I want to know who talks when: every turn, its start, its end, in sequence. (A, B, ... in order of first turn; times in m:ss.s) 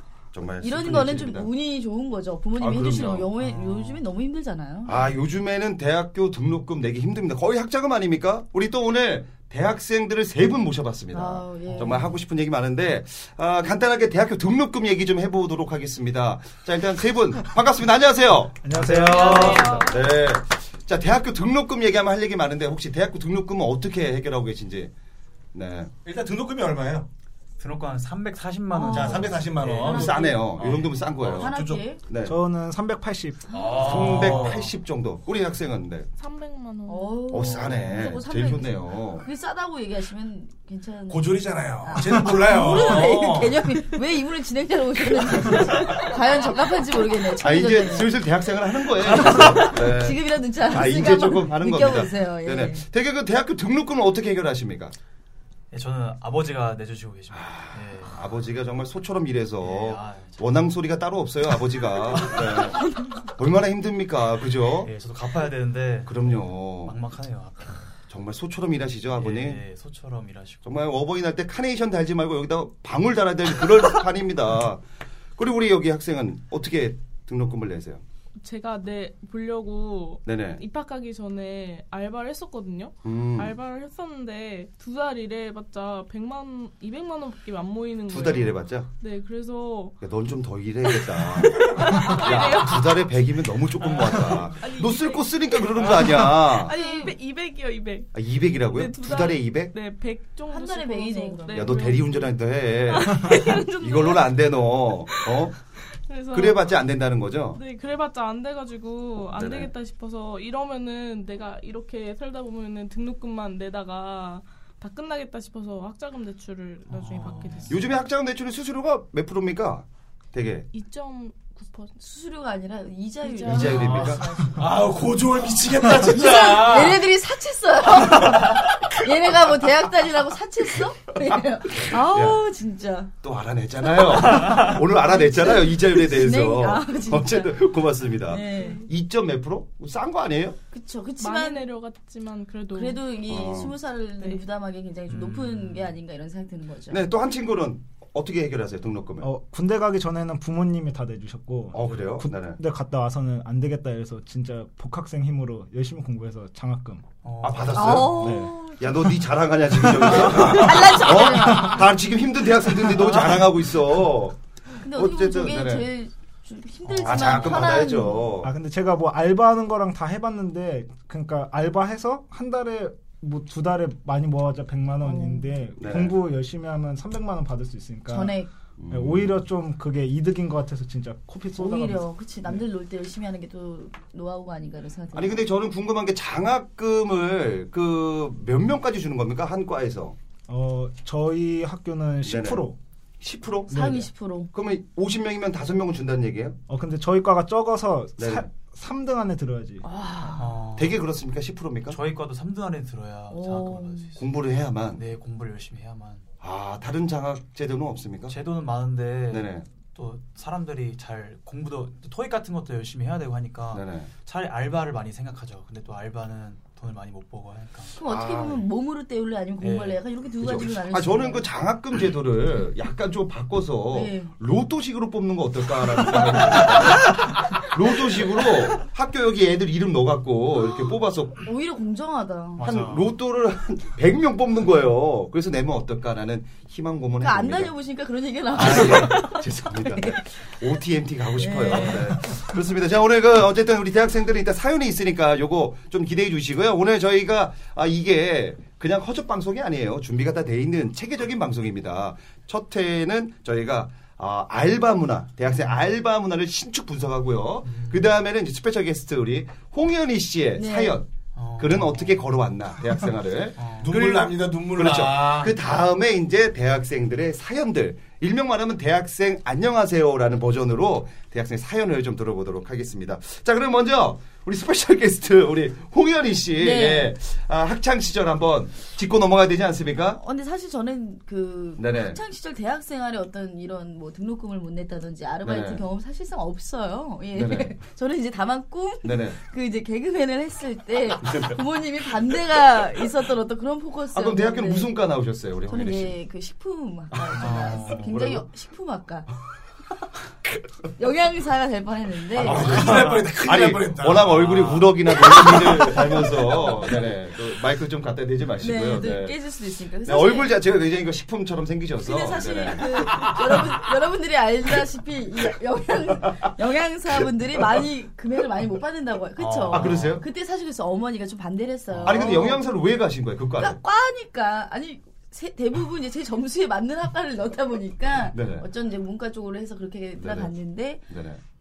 0:00.3-0:01.5 A
0:00.6-0:05.1 B
0:02.6-0:03.3 A
0:03.4-0:04.0 C
0:04.9-0:24.9 A
0:11.1-0:12.1 B
0:11.7-0:12.1 C
0:18.6-0:19.8 D
0:18.9-0:19.8 E
0:19.1-0:20.0 F
0:25.5-0:25.9 A
0:26.0-0:27.1 E
0:27.6-0:30.0 C
0:28.7-0:30.6 B
0:28.8-0:31.9 E
0:29.8-0:32.4 A
0:31.3-0:32.0 B
0:32.2-0:33.6 D
0:33.5-0:34.7 E
0:33.8-0:36.1 A
0:36.2-0:37.4 F
0:36.9-0:48.2 B
0:37.3-0:39.3 A
0:41.1-0:43.9 E
0:45.2-0:46.0 E
0:47.4-0:55.0 A
0:49.1-0:52.8 B
0:55.7-0:58.2 C
0:57.3-1:04.9 A
0:59.6-1:00.7 C
1:02.8-1:03.2 B
1:04.8-1:07.9 C
1:06.0-1:07.0 A
1:08.1-1:09.6 A
1:09.1-1:10.8 C
1:10.6-1:14.8 A
1:15.4-1:18.0 A
1:18.4-1:30.0 F
1:20.3-1:20.6 A
1:23.0-1:23.6 A
1:28.1-1:28.9 A
1:30.0-1:36.8 A
1:30.9-1:33.1 F
1:33.8-1:42.3 F
1:36.7-1:37.1 B
1:38.1-1:39.7 A
1:40.5-1:42.0 B
1:41.5-1:45.6 A
1:42.8-1:44.4 F
1:45.1-1:45.5 F
1:46.1-1:46.7 F
1:46.3-1:47.6 A
1:47.6-1:57.8 F
1:49.3-1:49.7 A
1:56.9-1:57.9 C
1:57.7-2:00.7 A
2:00.7-2:02.0 F
2:02.0-2:04.6 B
2:03.2-2:04.1 F
2:03.4-2:04.2 A
2:03.7-2:04.2 C
2:04.6-2:07.1 E
2:05.8-2:13.1 B
2:08.1-2:08.6 E
2:11.7-2:12.4 A
2:13.2-2:20.6 A
2:15.1-2:17.6 B
2:18.2-2:18.8 B
2:18.4-2:18.9 F
2:20.7-2:21.7 B
2:21.2-2:23.0 F
2:22.7-2:27.0 B
2:23.3-2:23.8 A
2:25.1-2:26.0 C
2:26.9-2:29.3 A
2:29.2-2:37.1 D
2:31.7-2:32.6 A
2:37.2-2:38.2 C
2:37.4-2:45.9 A
2:37.7-2:38.8 B
2:37.9-2:39.2 D
2:39.8-2:40.1 D
2:40.1-2:41.9 B
2:40.7-2:41.7 D
2:44.8-2:48.4 B
2:46.8-2:47.5 C
2:47.0-2:48.5 A
2:48.4-2:58.4 D
2:55.0-2:55.5 B
2:55.8-2:56.2 A
2:58.1-2:58.5 B
2:58.8-2:59.4 A
2:58.9-3:02.6 D
3:01.6-3:05.4 B
3:05.1-3:10.2 A
3:10.5-3:12.8 D
3:12.2-3:12.7 A
3:13.2-3:16.6 A
3:13.7-3:14.5 B
3:13.7-3:14.0 D
3:16.7-3:19.8 D
3:18.2-3:18.5 A
3:19.8-3:20.5 B
3:20.4-3:21.0 C
3:20.8-3:22.0 A
3:21.9-3:24.3 C
3:23.3-3:24.1 B
3:24.2-3:25.0 A
3:25.0-3:26.2 C
3:26.4-3:28.4 A
3:28.3-3:38.0 C
3:29.3-3:29.6 A
3:33.7-3:34.1 A
3:38.0-3:41.5 B
3:38.0-3:38.6 A
3:39.6-3:40.0 C
3:40.4-3:51.4 A
3:43.9-3:44.3 B
3:51.4-3:52.7 B
3:52.6-3:53.2 C
3:52.6-3:57.7 A
3:57.2-4:00.2 B
3:58.5-4:40.2 A
4:01.4-4:02.4 B
4:15.5-4:15.8 C
4:17.6-4:18.1 C
4:20.6-4:21.0 B
4:21.4-4:22.3 C
4:23.6-4:24.1 C
4:23.8-4:25.6 E
4:36.6-4:37.1 B
4:40.2-4:54.9 B
4:41.8-4:42.2 A
4:45.4-4:45.8 A
4:47.3-4:47.7 A
4:49.0-4:49.4 A
4:54.1-4:56.2 A
4:55.7-4:59.3 B
4:57.2-4:58.5 A
4:57.4-4:58.1 C
5:01.0-5:02.8 B
5:02.4-5:04.8 E
5:02.4-5:09.4 A
5:05.4-5:06.7 B
5:08.6-5:10.6 B
5:10.0-5:13.6 A
5:12.0-5:22.7 B
5:17.1-5:17.8 A
5:19.4-5:20.2 C
5:19.7-5:20.2 A
5:22.0-5:22.5 C
5:22.0-5:23.8 A
5:23.6-5:31.0 B
5:28.3-5:28.7 A
5:30.2-5:30.5 A
5:31.1-5:31.4 A